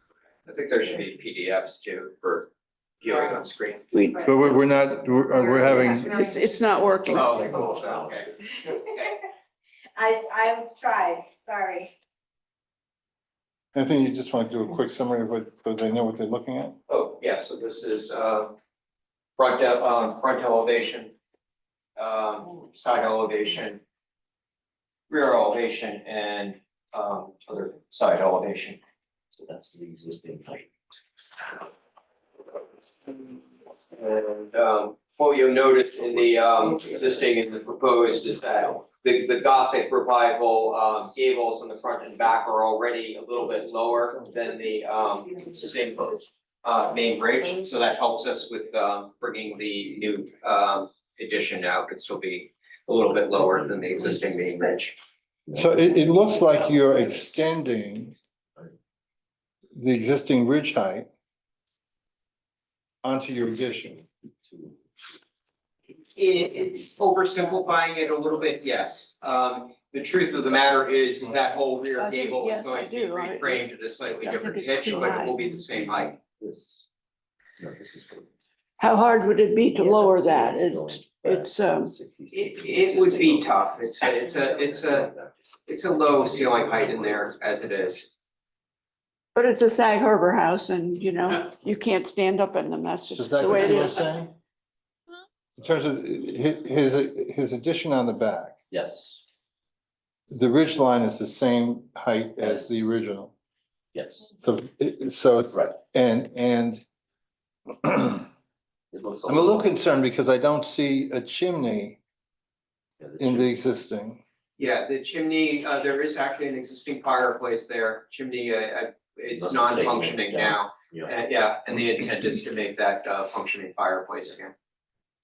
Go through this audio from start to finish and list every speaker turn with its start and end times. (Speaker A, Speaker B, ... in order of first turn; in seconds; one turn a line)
Speaker A: 0.4-3.9
Speaker B: 3.9-4.2
Speaker C: 4.1-4.6
Speaker D: 4.2-6.3
Speaker C: 5.3-8.0
Speaker B: 5.7-7.4
Speaker A: 7.1-9.1
Speaker E: 7.1-8.2
Speaker C: 10.0-11.9
Speaker D: 13.7-16.8
Speaker A: 16.9-18.5
Speaker A: 19.4-21.1
Speaker A: 22.0-23.8
Speaker A: 25.1-28.8
Speaker E: 29.4-30.7
Speaker A: 33.9-55.0
Speaker E: 35.9-37.4
Speaker E: 38.0-38.9
Speaker E: 42.0-42.3
Speaker E: 43.4-44.4
Speaker C: 44.7-45.5
Speaker E: 53.3-54.6
Speaker E: 55.5-57.4
Speaker D: 55.5-58.1
Speaker D: 59.7-61.1
Speaker D: 63.0-64.0
Speaker E: 64.4-64.8
Speaker A: 66.1-76.2
Speaker B: 72.0-73.7
Speaker B: 74.2-75.7
Speaker E: 74.9-75.3
Speaker E: 75.8-76.8
Speaker E: 77.6-78.3
Speaker B: 78.8-81.9
Speaker E: 79.7-88.1
Speaker A: 82.3-85.1
Speaker A: 85.7-88.1
Speaker B: 89.3-94.1
Speaker D: 93.1-94.3
Speaker D: 95.6-98.5
Speaker E: 98.7-99.2
Speaker D: 100.3-103.3
Speaker E: 102.4-102.9
Speaker E: 103.9-104.3
Speaker D: 104.4-106.8
Speaker D: 107.8-108.3
Speaker E: 108.9-109.8
Speaker D: 109.3-112.0
Speaker E: 113.0-113.5
Speaker D: 113.2-114.2
Speaker A: 114.6-124.5
Speaker E: 119.3-121.7